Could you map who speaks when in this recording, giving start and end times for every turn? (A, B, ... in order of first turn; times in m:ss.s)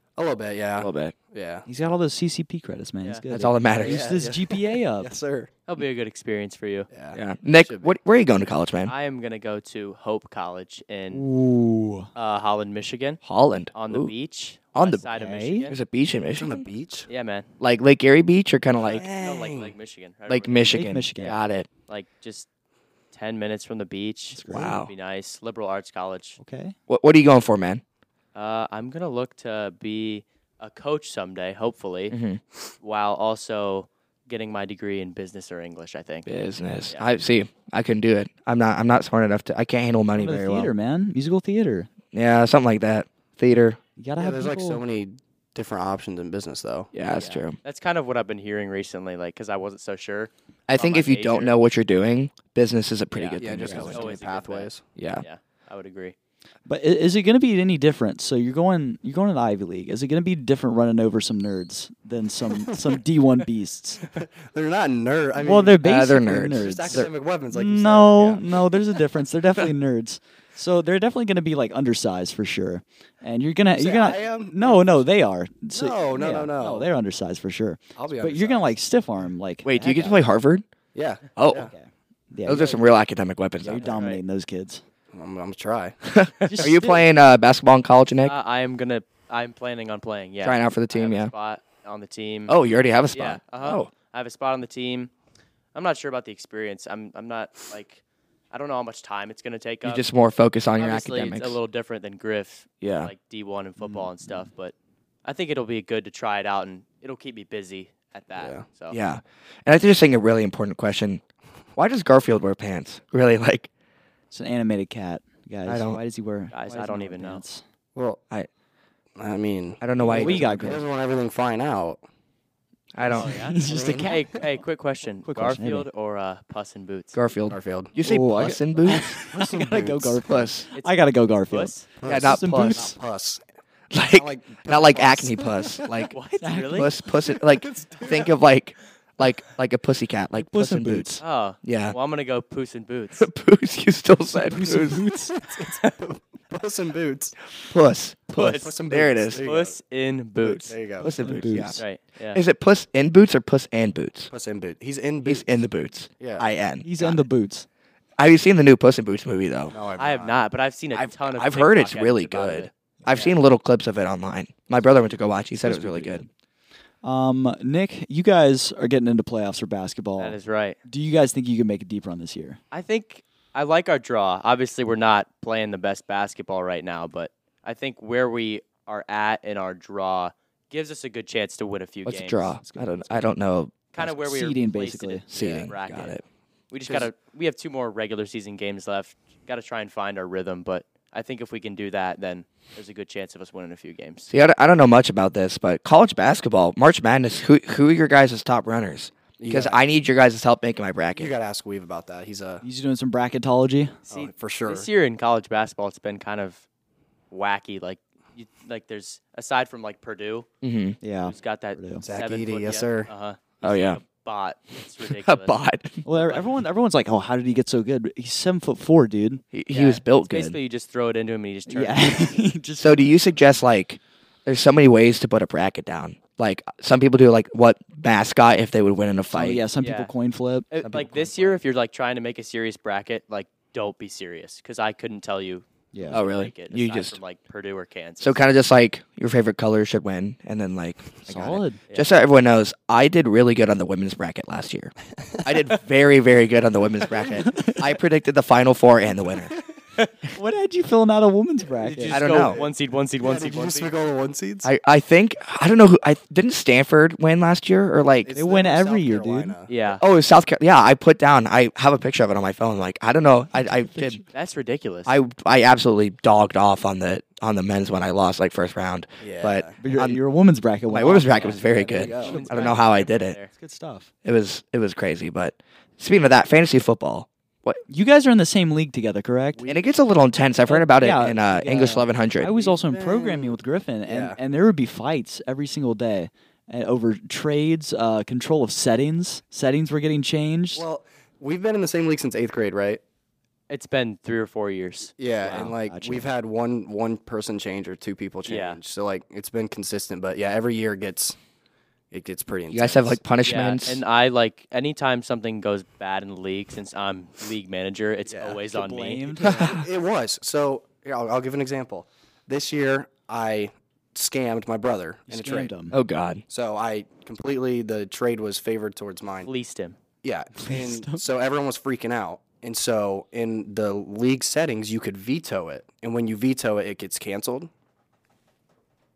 0:00.2-0:01.7 A
0:00.8-0:01.1 B
0:01.7-0:05.1 C
0:03.3-0:04.1 B
0:03.8-0:05.5 A
0:05.7-0:06.9 D
0:06.9-0:07.9 A
0:07.1-0:08.9 B
0:08.8-0:11.3 D
0:11.1-0:12.1 C
0:12.2-0:13.2 D
0:13.2-0:14.1 B
0:13.7-0:15.8 D
0:14.8-0:15.0 B
0:15.1-0:15.7 C
0:15.7-0:16.6 B
0:16.4-0:17.1 A
0:17.1-0:17.5 D
0:17.6-0:19.0 B
0:18.8-0:19.7 A
0:19.2-0:20.8 D
0:20.3-0:21.7 B
0:20.7-0:21.4 C
0:21.9-0:22.5 D
0:23.1-0:26.4 D
0:24.3-0:24.8 C
0:24.5-0:24.9 B
0:26.4-0:26.8 C
0:26.9-0:27.8 B
0:28.3-0:32.2 D
0:32.1-0:32.4 B
0:32.8-0:36.3 D
0:36.3-0:40.7 B
0:40.2-0:41.9 C
0:42.1-0:43.8 B
0:44.0-0:44.8 C
0:44.2-0:46.9 A
0:46.9-0:47.6 B
0:47.1-0:51.6 D
0:50.7-0:54.2 B
0:53.1-0:56.2 D
0:53.4-0:54.8 A
0:55.0-0:55.2 B
0:56.7-1:04.1 C
1:04.1-1:05.8 A
1:05.4-1:20.2 C
1:05.8-1:07.1 B
1:06.5-1:08.5 A
1:13.8-1:15.0 A
1:15.7-1:16.9 A
1:18.0-1:18.8 A
1:19.6-1:20.6 B
1:20.9-1:21.7 A
1:21.4-1:21.7 B
1:21.5-1:22.8 C
1:22.5-1:24.0 B
1:23.6-1:24.8 C
1:23.8-1:24.2 D
1:25.1-1:26.0 A
1:26.1-1:28.4 B
1:26.4-1:27.1 C
1:28.2-1:32.6 D
1:30.4-1:31.3 B
1:32.5-1:33.9 B
1:33.1-1:35.1 D
1:35.7-1:38.0 D
1:38.5-1:40.1 D
1:39.8-1:41.6 B
1:40.8-1:49.0 D
1:42.8-1:43.1 B
1:48.4-1:48.6 A
1:48.9-1:51.2 B
1:51.8-1:53.7 B
1:54.3-1:57.6 C
1:55.7-1:56.0 B
1:56.5-1:57.4 D
1:58.0-1:58.2 A
1:59.2-2:02.0 A
1:59.8-2:00.8 B
2:00.0-2:00.8 C
2:02.9-2:03.5 B
2:03.1-2:04.5 C
2:03.2-2:07.2 D
2:03.7-2:04.2 A
2:05.3-2:05.9 C
2:07.1-2:09.2 B
2:07.5-2:10.2 A
2:08.0-2:13.0 C
2:10.2-2:10.7 B
2:10.7-2:11.9 D
2:12.0-2:13.4 A
2:12.0-2:12.9 B
2:13.9-2:16.2 B
2:14.1-2:15.9 A
2:16.1-2:17.0 D
2:16.4-2:16.9 C
2:16.7-2:22.0 B
2:17.3-2:18.3 A
2:20.4-2:21.2 C
2:21.2-2:23.3 D
2:23.2-2:25.0 B
2:24.5-2:25.4 C
2:25.4-2:27.4 A
2:27.6-2:29.4 B
2:28.3-2:28.8 D
2:28.4-2:29.8 A
2:29.3-2:30.8 D
2:30.4-2:31.1 A
2:31.0-2:34.3 B
2:31.0-2:31.8 C
2:31.8-2:32.4 D
2:34.3-2:35.6 A
2:35.2-2:37.2 B
2:36.2-2:36.5 A
2:36.8-2:37.7 C
2:38.2-2:39.8 B
2:39.7-2:40.4 A
2:40.0-2:43.3 D
2:40.9-2:46.2 B
2:45.6-2:46.3 C
2:47.0-2:52.6 C
2:50.2-2:50.8 D
2:52.7-3:02.6 D
3:02.1-3:04.1 B
3:03.9-3:06.2 D
3:04.1-3:05.3 C
3:05.3-3:06.2 B
3:06.7-3:14.3 D
3:06.8-3:07.1 A
3:14.3-3:21.3 B
3:19.4-3:19.8 A
3:21.2-3:22.6 A
3:22.6-3:24.0 C
3:24.1-3:26.6 D
3:24.1-3:24.9 A
3:27.3-3:30.5 D
3:30.6-3:31.0 B
3:31.0-3:32.0 C
3:31.2-3:35.6 D
3:32.0-3:33.1 A
3:33.6-3:34.0 B
3:35.1-3:36.0 B
3:36.1-3:39.4 C
3:36.1-3:36.4 D
3:39.5-3:40.6 B
3:39.7-3:42.4 D
3:41.7-3:43.2 C
3:42.8-3:49.6 B
3:49.3-3:51.3 C
3:49.8-3:50.1 D
3:50.7-3:58.4 D
3:55.9-3:56.2 C
3:56.1-3:57.2 B
3:58.2-4:04.9 B
4:01.3-4:01.8 C
4:05.4-4:09.6 B
4:10.3-4:12.2 C
4:11.8-4:13.9 D
4:12.0-4:14.7 A
4:12.1-4:12.6 B
4:14.6-4:18.3 B
4:18.2-4:19.7 A
4:18.4-4:19.6 C
4:19.7-4:20.0 D
4:20.0-4:24.2 B
4:23.6-4:24.2 C
4:24.3-4:25.2 D
4:25.1-4:30.2 B
4:29.2-4:29.8 A
4:29.8-4:32.9 C
4:30.9-4:33.4 B
4:31.4-4:33.5 D
4:31.4-4:32.5 A
4:33.5-4:34.1 C
4:34.2-4:37.8 B
4:37.9-4:39.6 C
4:39.6-4:39.9 A
4:39.7-4:42.5 B
4:40.6-4:50.8 C
4:42.5-4:44.4 A
4:50.8-4:53.0 A
4:53.7-4:55.7 D
4:55.2-5:01.4 A
4:55.4-4:56.3 C
4:58.5-4:58.8 D
5:02.1-5:03.2 A
5:02.7-5:04.0 B
5:03.4-5:09.4 D
5:08.3-5:08.6 A
5:08.7-5:09.8 C
5:09.4-5:09.8 B
5:09.5-5:15.7 A
5:15.3-5:16.0 C
5:15.9-5:16.4 B
5:16.5-5:19.5 A
5:19.4-5:20.0 D
5:20.2-5:27.7 A
5:20.6-5:21.2 C